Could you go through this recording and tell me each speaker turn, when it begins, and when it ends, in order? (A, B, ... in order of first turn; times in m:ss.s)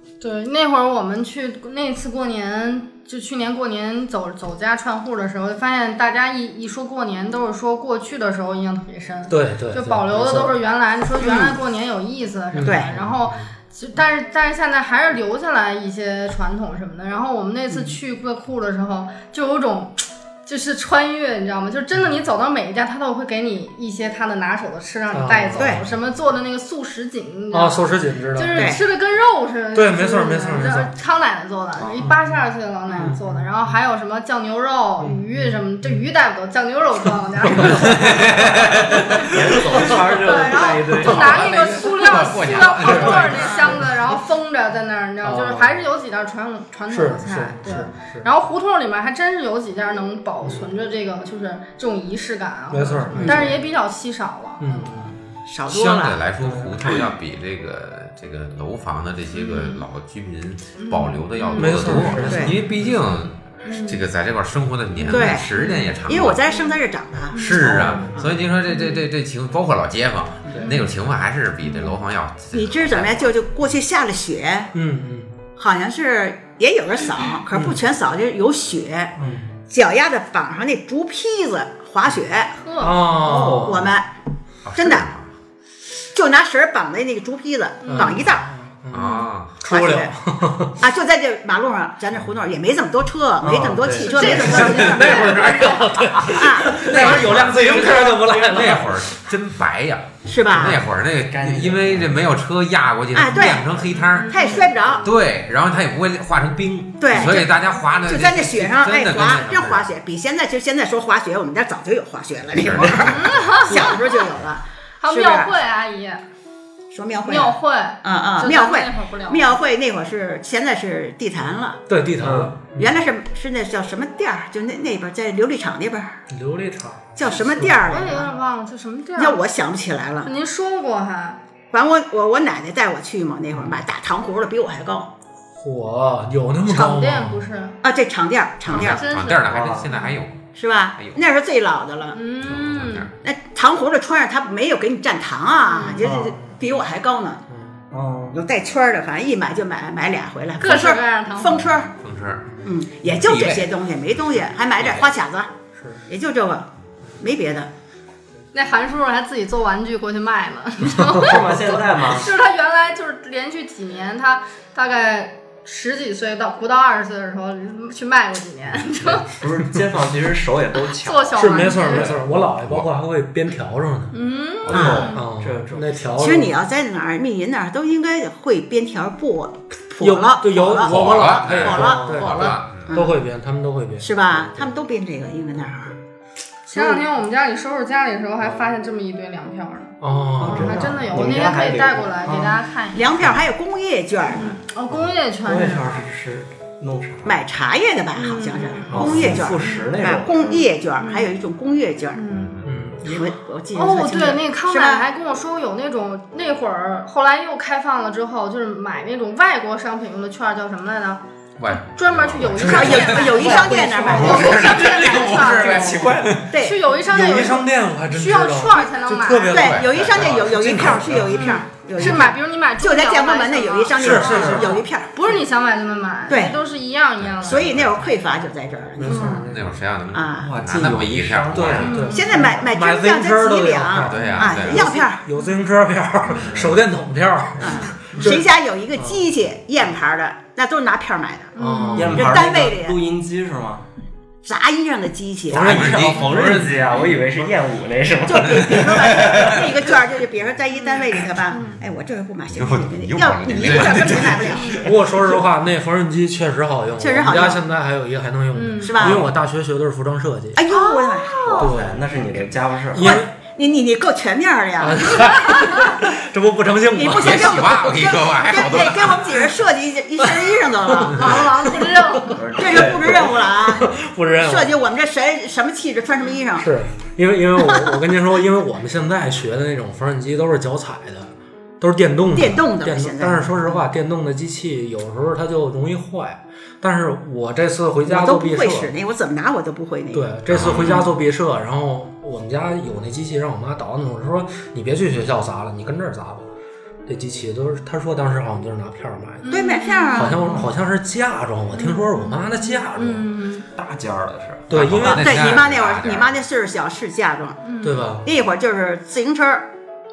0:00.2-0:38.3 A
0:09.3-0:10.6 B
0:11.2-0:11.6 C
0:12.5-0:13.5 B
0:12.6-0:12.9 C
0:25.1-0:25.9 B
0:25.6-0:25.8 C
0:27.5-0:28.8 B
0:28.5-0:28.8 C
0:29.8-0:30.9 B
0:32.0-0:32.4 B
0:33.0-0:33.7 B
0:35.0-0:36.0 B
0:37.4-0:40.1 B
0:38.0-0:39.2 D
0:39.2-0:41.7 E
0:39.9-0:55.1 A
0:41.0-0:43.9 D
0:42.8-0:44.0 B
0:45.2-0:45.8 B
0:46.9-0:48.3 B
0:52.7-0:53.6 B
0:53.2-0:53.5 C
0:54.6-0:55.3 B
0:55.5-0:56.2 C
0:55.7-1:06.4 D
0:59.3-0:59.8 A
1:00.8-1:02.4 A
1:01.6-1:02.6 B
1:02.0-1:02.5 E
1:02.3-1:02.6 C
1:03.6-1:04.0 A
1:05.0-1:06.0 A
1:05.1-1:05.5 C
1:06.1-1:08.4 C
1:06.5-1:06.8 A
1:07.3-1:08.1 A
1:07.3-1:13.3 D
1:08.7-1:09.0 A
1:10.6-1:10.9 A
1:11.6-1:12.0 A
1:12.5-1:14.7 C
1:14.7-1:15.3 B
1:15.6-1:19.2 C
1:17.5-1:17.8 B
1:19.2-1:19.5 B
1:19.7-1:22.5 C
1:22.6-1:23.0 A
1:22.8-1:23.9 B
1:23.1-1:24.1 C
1:23.4-1:23.8 E
1:24.7-1:25.3 D
1:24.8-1:25.1 C
1:26.1-1:28.5 C
1:27.8-1:28.2 A
1:27.9-1:30.8 B
1:28.9-1:29.6 D
1:29.7-1:30.1 C
1:30.8-1:35.6 C
1:33.4-1:35.5 E
1:33.9-1:35.7 A
1:34.2-1:39.1 B
1:34.6-1:35.8 D
1:36.4-1:37.9 C
1:36.4-1:37.2 E
1:36.8-1:44.4 D
1:37.9-1:38.6 E
1:40.3-1:40.8 C
1:41.3-1:42.1 E
1:43.1-1:45.1 C
1:43.9-1:44.7 A
1:45.0-1:49.9 D
1:47.0-1:55.5 C
1:52.5-1:53.6 D
1:52.8-1:53.1 E
1:53.1-1:54.3 A
1:55.0-1:56.2 A
1:56.9-2:01.8 C
1:57.2-1:59.6 A
2:01.9-2:03.0 B
2:02.2-2:02.6 E
2:02.8-2:06.2 C
2:06.3-2:08.3 B
2:07.2-2:08.3 C
2:07.9-2:09.4 A
2:09.2-2:10.3 C
2:10.2-2:11.4 A
2:11.7-2:15.1 C
2:15.6-2:17.4 B
2:16.6-2:17.8 A
2:17.8-2:19.0 C
2:18.7-2:21.2 D
2:18.7-2:20.2 A
2:19.5-2:19.9 E
2:20.6-2:22.2 C
2:22.1-2:23.1 A
2:22.5-2:23.1 D
2:23.2-2:27.4 C
2:25.7-2:26.1 A
2:26.0-2:26.6 B
2:27.5-2:27.8 B
2:27.9-2:28.4 E
2:28.3-2:31.9 C
2:30.6-2:31.7 A
2:32.0-2:32.4 D
2:32.5-2:32.7 B
2:32.6-2:35.5 C
2:33.1-2:33.7 D
2:35.8-2:36.0 B
2:36.1-2:36.7 C
2:37.2-2:37.7 C
2:38.5-2:49.4 A
2:40.9-2:41.6 B
2:41.2-2:42.3 E
2:49.2-2:52.4 E
2:50.8-2:52.1 A
2:51.4-2:54.2 B
2:54.1-2:55.2 A
2:54.7-2:55.1 D
2:54.7-2:56.0 E
2:54.7-2:55.1 C
2:55.1-2:56.5 B
2:56.2-3:03.2 C
3:00.0-3:04.8 B
3:00.8-3:02.9 D
3:04.0-3:05.9 C
3:06.7-3:07.0 B
3:06.7-3:13.1 A
3:10.0-3:11.1 B
3:10.4-3:12.6 E
3:12.9-3:14.6 C
3:14.3-3:16.0 A
3:15.4-3:17.4 E
3:17.2-3:22.2 C
3:18.2-3:19.9 A
3:18.9-3:20.7 E
3:21.0-3:21.3 A
3:22.2-3:22.5 A
3:22.3-3:22.8 D
3:22.6-3:23.3 B
3:23.0-3:25.0 C
3:23.7-3:31.2 A
3:31.6-3:36.5 D
3:31.8-3:39.7 A
3:32.4-3:34.4 B
3:32.6-3:34.9 C
3:33.6-3:36.5 E
3:36.5-3:36.8 C
3:37.0-3:42.3 B
3:39.5-3:45.1 C
3:39.5-3:40.8 D
3:41.3-3:47.7 A
3:44.0-3:44.8 B
3:46.3-3:46.6 C
3:47.2-3:48.0 D
3:47.4-3:49.5 C
3:49.0-3:49.8 B
3:49.1-3:49.5 A
3:49.5-3:52.0 D
3:50.1-3:50.6 C
3:50.4-3:52.1 E
3:51.5-3:59.3 B
3:51.8-3:52.6 A
3:52.0-3:55.2 C
3:54.0-3:54.9 D
3:54.2-3:54.5 A
3:56.4-3:56.8 E
3:57.6-4:01.6 C
4:01.6-4:02.3 A
4:01.6-4:02.4 B
4:02.0-4:03.8 E
4:02.1-4:03.0 C
4:04.4-4:06.0 C
4:05.5-4:06.8 B
4:05.6-4:06.2 D
4:05.7-4:09.7 E
4:06.9-4:07.2 A
4:08.3-4:14.8 C
4:09.2-4:09.5 D
4:10.7-4:11.8 A
4:12.5-4:14.8 D
4:14.8-4:20.7 B
4:17.0-4:17.6 C
4:18.5-4:19.1 A
4:18.8-4:19.3 C
4:20.6-4:21.7 C
4:20.7-4:21.7 A
4:21.5-4:23.2 E
4:21.6-4:22.0 B
4:22.9-4:23.3 B
4:23.0-4:25.4 C
4:24.8-4:27.8 B
4:26.9-4:31.4 C
4:27.1-4:29.6 D
4:30.2-4:32.0 B
4:31.1-4:32.4 A
4:32.4-4:33.4 E
4:32.6-4:36.7 C
4:33.1-4:34.7 B
4:36.6-4:48.9 B
4:37.6-4:38.0 C
4:42.3-4:43.8 C
4:48.1-4:51.1 C
4:50.1-4:56.5 B
4:50.5-4:51.0 D
4:57.1-4:59.6 B
4:59.4-5:00.7 A
4:59.5-5:00.4 C
5:00.1-5:03.3 B
5:01.7-5:03.7 A
5:03.8-5:04.9 E
5:04.7-5:05.4 B
5:04.7-5:06.4 D
5:05.0-5:07.6 C
5:07.6-5:08.1 A
5:07.8-5:08.3 B
5:08.2-5:09.7 C